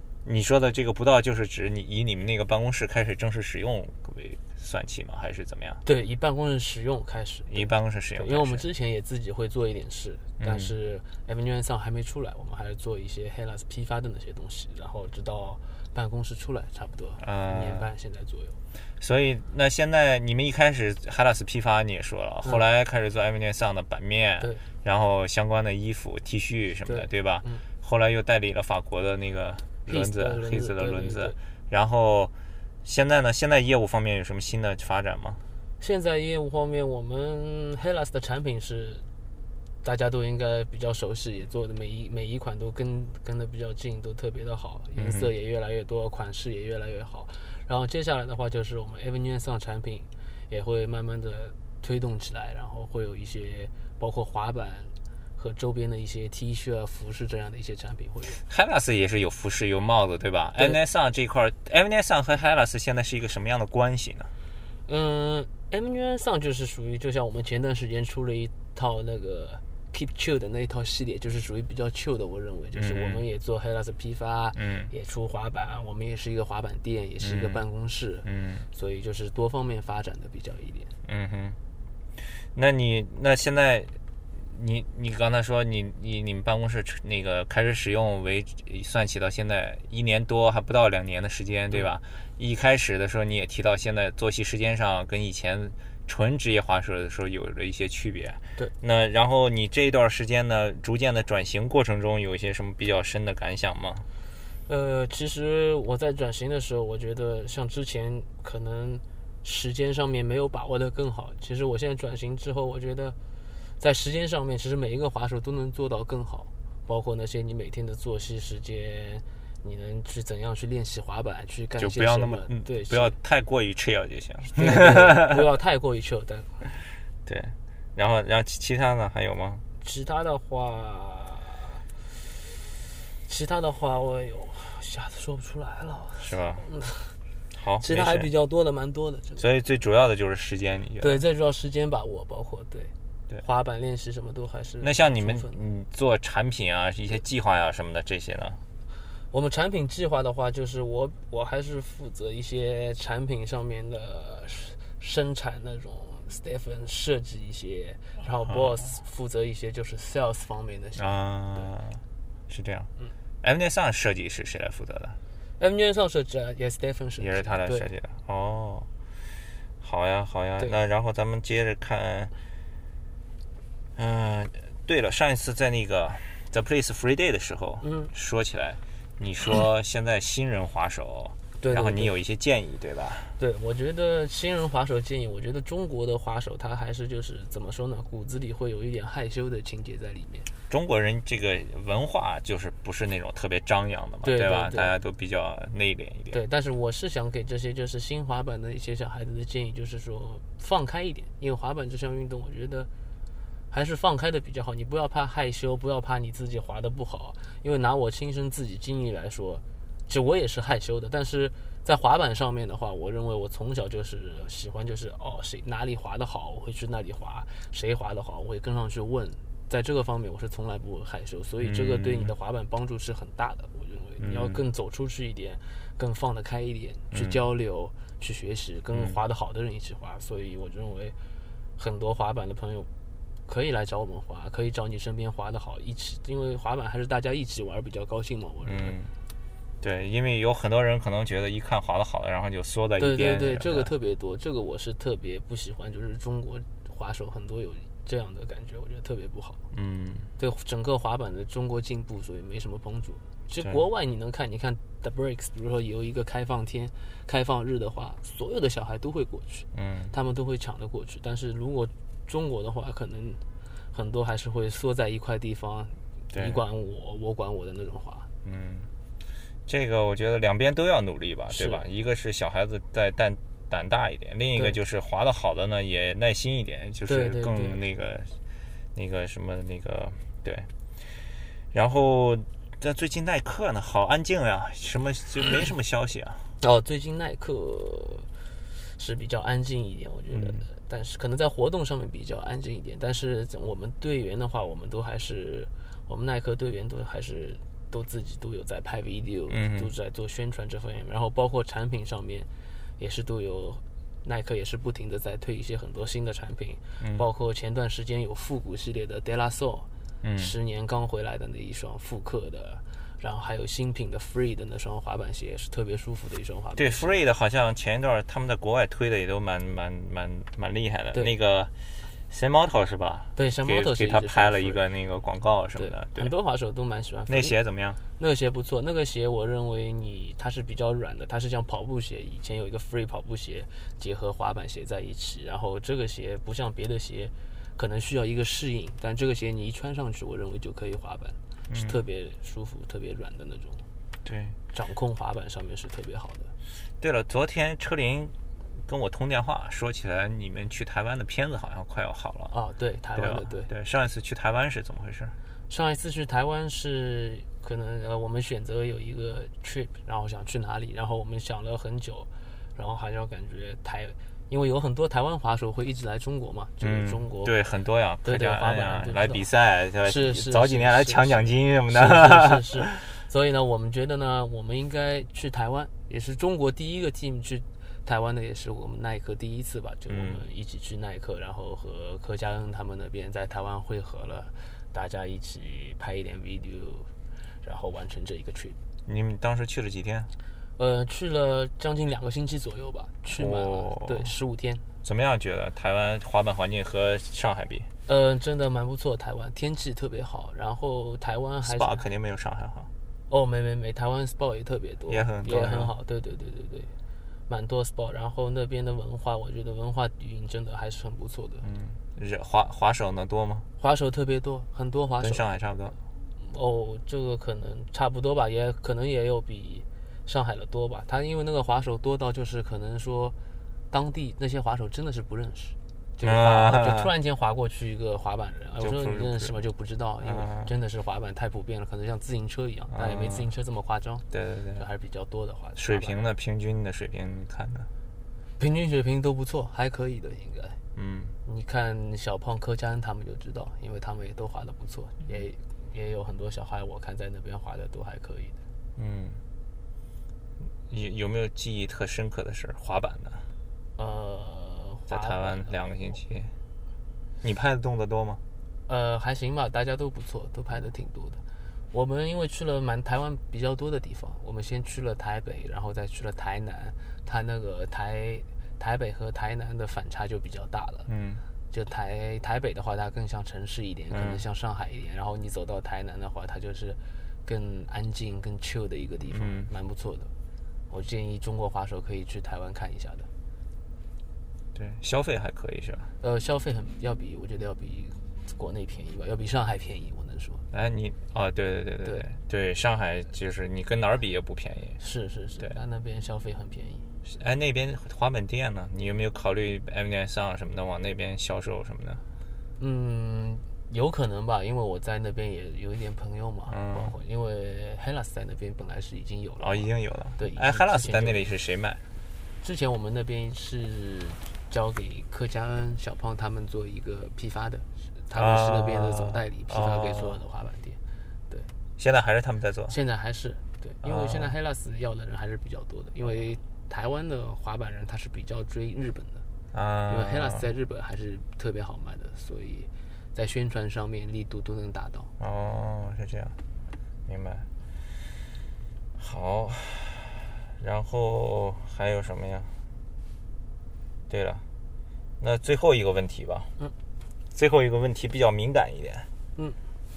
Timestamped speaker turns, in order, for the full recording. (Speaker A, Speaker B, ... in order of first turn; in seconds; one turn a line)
Speaker A: 0.2-5.8
Speaker B: 5.8-18.6
Speaker A: 7.5-8.6
Speaker A: 10.4-10.7
Speaker A: 17.2-17.9
Speaker A: 19.0-32.3
Speaker B: 26.9-27.6
Speaker B: 29.9-31.3
Speaker A: 32.8-35.4
Speaker B: 35.8-39.0
Speaker B: 39.8-58.4
Speaker A: 45.0-45.3
Speaker A: 58.5-64.3
Speaker B: 64.9-80.9
Speaker A: 72.7-73.2
Speaker A: 74.5-74.9
Speaker A: 77.2-77.6
Speaker A: 78.2-78.7
Speaker A: 81.0-81.6
Speaker A: 82.5-104.0
Speaker B: 104.7-113.2
Speaker B: 113.8-123.2
Speaker A: 121.8-125.4
Speaker B: 124.5-126.7
Speaker A: 127.2-129.6
Speaker B: 129.8-131.8
Speaker B: 133.2-137.1
Speaker A: 136.2-136.7
Speaker A: 137.5-138.3
Speaker B: 137.8-139.4
Speaker A: 139.4-141.2
Speaker B: 141.0-145.6
Speaker A: 144.8-148.6
Speaker B: 149.3-161.7
Speaker A: 160.9-162.9
Speaker A: 163.4-165.2
Speaker B: 165.6-167.9
Speaker A: 167.2-168.9
Speaker A: 169.8-172.3
Speaker A: 173.9-183.3
Speaker B: 177.8-178.1
Speaker B: 181.6-182.1
Speaker B: 183.4-190.5
Speaker A: 190.7-196.4
Speaker B: 194.2-194.9
Speaker B: 196.3-202.9
Speaker B: 203.7-231.2
Speaker A: 221.6-222.3
Speaker A: 224.2-224.6
Speaker A: 227.1-227.4
Speaker B: 231.8-232.9
Speaker B: 233.5-239.0
Speaker A: 238.6-239.1
Speaker A: 239.8-243.9
Speaker B: 243.0-249.6
Speaker A: 249.7-250.3
Speaker B: 250.4-268.3
Speaker A: 259.7-260.1
Speaker A: 266.3-266.6
Speaker A: 268.4-268.9
Speaker A: 269.7-278.3
Speaker B: 271.5-271.9
Speaker B: 277.1-277.8
Speaker A: 278.9-280.7
Speaker A: 281.7-286.4
Speaker B: 286.6-288.3
Speaker B: 288.9-317.2
Speaker A: 290.3-290.6
Speaker A: 299.5-299.9
Speaker A: 307.0-307.2
Speaker A: 310.2-310.5
Speaker A: 316.8-321.7
Speaker A: 322.3-326.3
Speaker B: 323.3-324.8
Speaker B: 325.8-327.6
Speaker A: 327.3-328.0
Speaker B: 328.2-343.8
Speaker A: 341.7-342.0
Speaker A: 344.2-344.6
Speaker B: 344.7-346.5
Speaker A: 347.0-348.3
Speaker A: 348.9-352.5
Speaker B: 352.5-353.7
Speaker A: 353.1-355.3
Speaker B: 355.7-367.6
Speaker A: 366.8-373.0
Speaker B: 368.2-369.4
Speaker B: 370.0-387.1
Speaker A: 380.1-380.4
Speaker B: 387.6-388.8
Speaker A: 389.1-390.3
Speaker B: 390.8-394.8
Speaker A: 393.3-394.3
Speaker A: 395.0-397.9
Speaker B: 398.1-402.0
Speaker A: 401.6-402.9
Speaker B: 403.3-406.9
Speaker A: 405.1-405.9
Speaker B: 407.5-411.6
Speaker A: 411.6-413.6
Speaker B: 413.8-415.5
Speaker A: 415.2-415.9
Speaker B: 416.4-423.4
Speaker B: 423.9-434.2
Speaker A: 426.2-427.1
Speaker A: 428.8-429.6
Speaker A: 430.2-430.7
Speaker A: 432.9-433.5
Speaker A: 434.3-434.9
Speaker B: 434.8-436.2
Speaker A: 435.8-437.9
Speaker B: 438.6-440.8
Speaker A: 440.9-441.3
Speaker B: 441.4-448.6
Speaker A: 448.9-449.4
Speaker A: 450.9-453.4
Speaker B: 454.0-455.8
Speaker A: 455.1-456.5
Speaker A: 457.4-458.4
Speaker B: 458.9-461.4
Speaker B: 461.9-471.1
Speaker A: 471.1-471.4
Speaker B: 471.7-480.3
Speaker A: 474.1-474.4
Speaker A: 479.3-479.7
Speaker B: 480.9-483.3
Speaker A: 484.7-486.1
Speaker B: 486.2-490.6
Speaker A: 490.7-495.0
Speaker B: 492.0-492.3
Speaker B: 495.0-497.1
Speaker A: 497.2-502.2
Speaker B: 502.8-511.5
Speaker A: 506.7-507.1
Speaker A: 509.6-512.0
Speaker B: 512.6-521.0
Speaker A: 518.3-520.4
Speaker A: 522.0-523.0
Speaker B: 522.9-529.4
Speaker A: 524.0-524.5
Speaker A: 529.7-530.6
Speaker B: 530.1-535.3
Speaker A: 535.4-536.5
Speaker A: 537.3-537.7
Speaker A: 539.2-542.7
Speaker A: 544.3-544.6
Speaker A: 545.4-546.7
Speaker A: 547.5-549.3